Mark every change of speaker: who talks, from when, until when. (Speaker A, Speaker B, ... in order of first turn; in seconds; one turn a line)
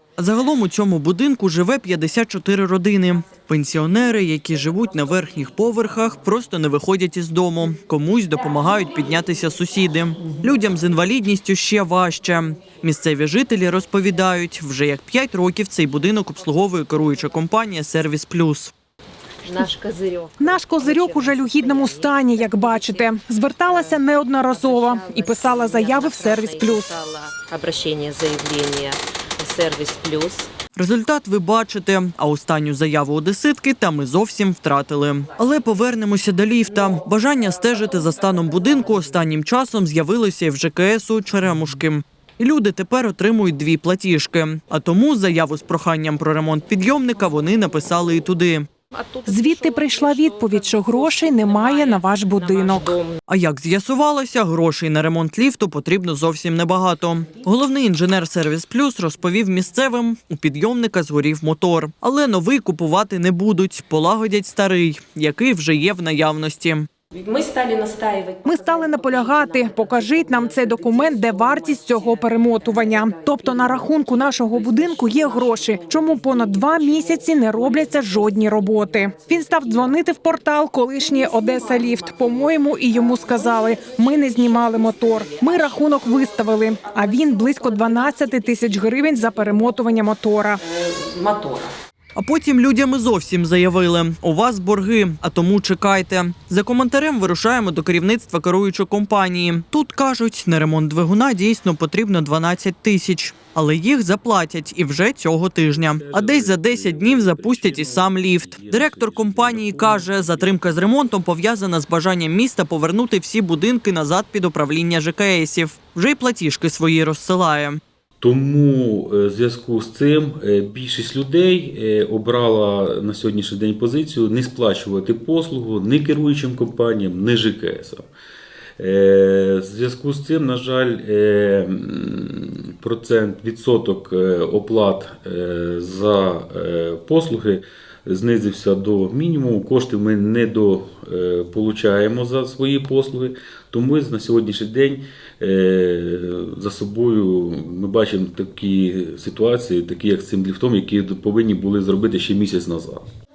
Speaker A: 0.2-18.7
Speaker B: 19.4-23.1
Speaker C: 20.4-26.9
Speaker B: 23.6-30.5
Speaker A: 30.8-48.7
Speaker B: 48.9-53.2
Speaker C: 49.3-53.0
Speaker A: 53.3-66.9
Speaker B: 67.1-80.0
Speaker C: 68.5-90.6
Speaker B: 81.0-89.8
Speaker B: 90.6-91.7
Speaker A: 92.2-117.8
Speaker D: 105.7-110.9
Speaker D: 118.2-128.1
Speaker D: 128.8-153.0